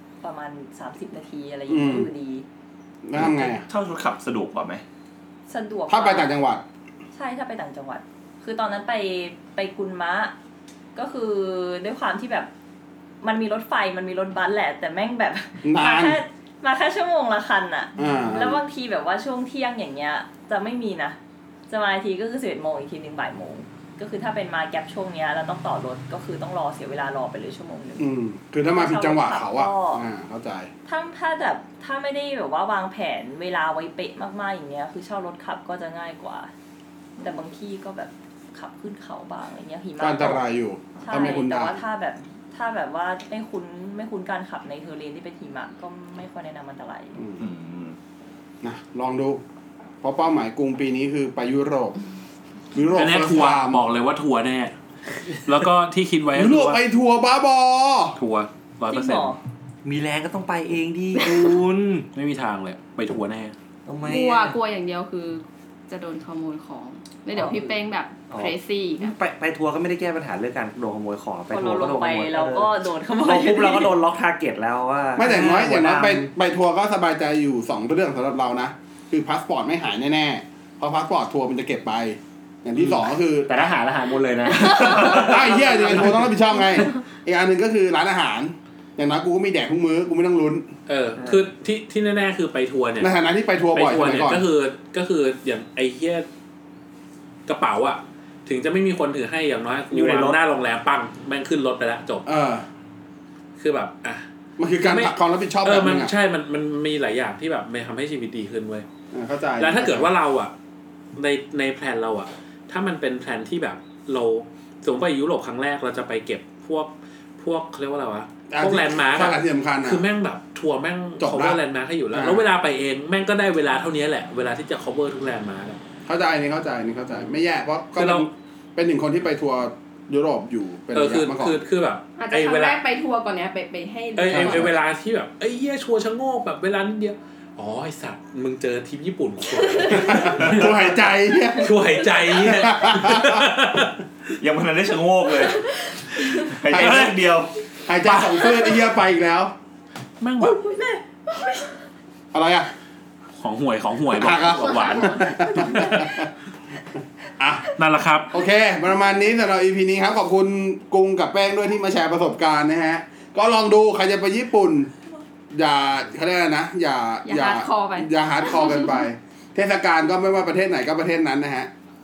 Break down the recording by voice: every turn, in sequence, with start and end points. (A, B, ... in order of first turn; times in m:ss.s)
0:00.2-0:02.4 A
0:01.7-0:02.1 B
0:03.0-0:03.6 B
0:03.2-0:04.8 C
0:05.5-0:06.3 A
0:05.9-0:06.6 B
0:07.1-0:10.3 A
0:10.9-0:12.5 A
0:13.2-0:21.2 A
0:15.6-0:16.2 B
0:18.0-0:18.6 B
0:21.7-0:28.1 A
0:28.0-0:30.7 B
0:28.7-0:30.0 A
0:30.8-0:36.5 A
0:37.2-0:40.4 A
0:40.0-0:41.8 B
0:41.0-0:47.2 A
0:47.2-0:47.4 B
0:47.4-0:48.0 C
0:48.6-0:49.4 B
0:50.0-0:52.0 B
0:52.7-0:53.8 B
0:52.9-0:54.7 D
0:55.4-0:56.8 D
0:56.3-0:58.2 B
0:58.2-0:59.4 D
0:58.9-0:59.4 A
0:59.8-1:02.1 E
1:02.1-1:03.5 D
1:03.8-1:04.5 E
1:04.0-1:09.2 F
1:07.3-1:07.8 A
1:08.3-1:16.3 E
1:11.5-1:14.0 A
1:15.2-1:23.5 B
1:22.8-1:26.3 E
1:24.6-1:30.7 B
1:30.9-1:33.1 D
1:31.2-1:31.4 E
1:33.0-1:34.4 B
1:33.7-1:36.3 D
1:37.5-1:42.3 D
1:39.9-1:40.4 E
1:42.2-1:42.6 B
1:43.6-1:44.2 D
1:44.6-1:46.1 B
1:44.9-1:48.8 D
1:49.1-1:50.1 B
1:49.6-1:50.5 D
1:51.2-2:05.8 D
1:58.5-2:00.0 B
2:01.2-2:01.6 B
2:02.1-2:02.4 B
2:06.0-2:11.6 B
2:08.0-2:08.3 D
2:10.9-2:12.8 D
2:12.2-2:14.4 F
2:14.2-2:21.0 D
2:14.3-2:14.7 B
2:19.6-2:19.9 F
2:19.9-2:21.7 B
2:21.5-2:24.0 D
2:22.2-2:23.4 B
2:24.4-2:25.6 C
2:26.2-2:27.2 D
2:26.4-2:27.5 C
2:26.7-2:27.1 B
2:27.8-2:29.5 B
2:28.0-2:28.8 D
2:30.2-2:30.6 D
2:30.4-2:31.0 A
2:32.3-2:32.7 B
2:33.4-2:36.2 D
2:34.1-2:36.3 B
2:35.2-2:35.8 F
2:37.4-2:37.7 B
2:37.8-2:38.3 D
2:38.3-2:44.9 B
2:45.5-2:51.7 B
2:47.2-2:49.0 F